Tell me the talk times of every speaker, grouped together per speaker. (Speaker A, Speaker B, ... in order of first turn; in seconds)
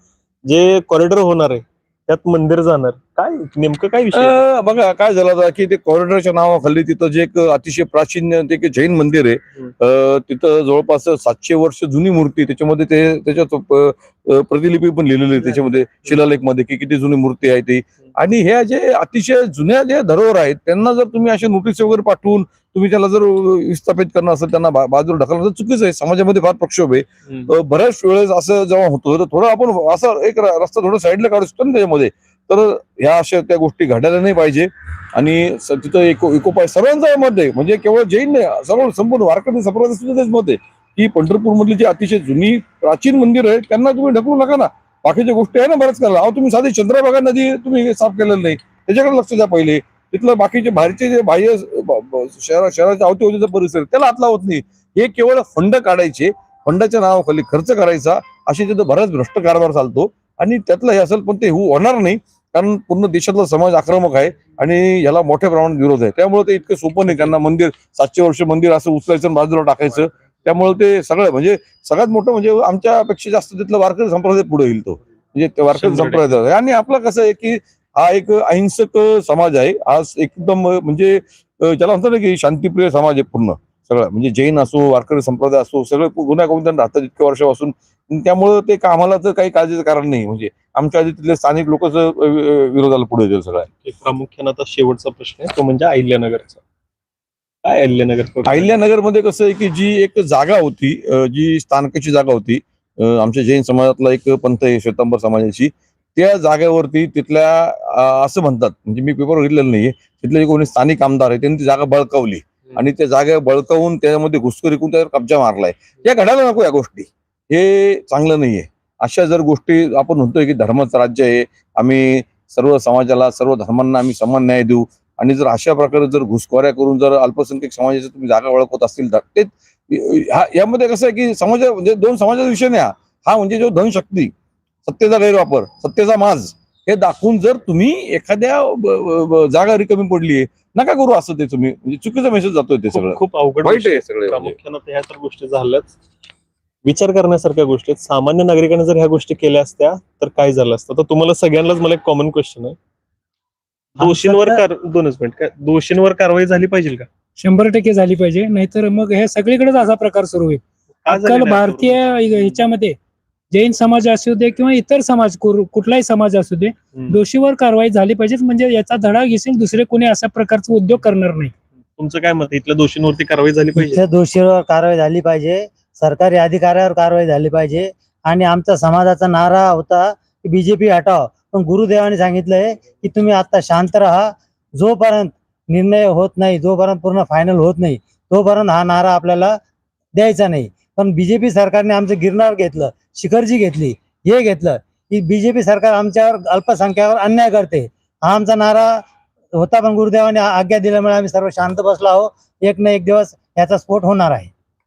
Speaker A: 0.5-4.5, 15.4-16.2, 67.1-67.4, 75.7-76.4, 93.8-96.6, 97.7-98.7, 142.9-145.9, 146.8-152.8, 154.0-157.1, 161.1-162.6, 172.0-174.0
Speaker B: 4.1-93.7, 98.5-134.3, 134.9-144.6
Speaker C: 154.0-154.6, 157.4-163.0, 163.5-171.5
Speaker D: 173.9-189.6, 190.2-198.9, 199.6-204.5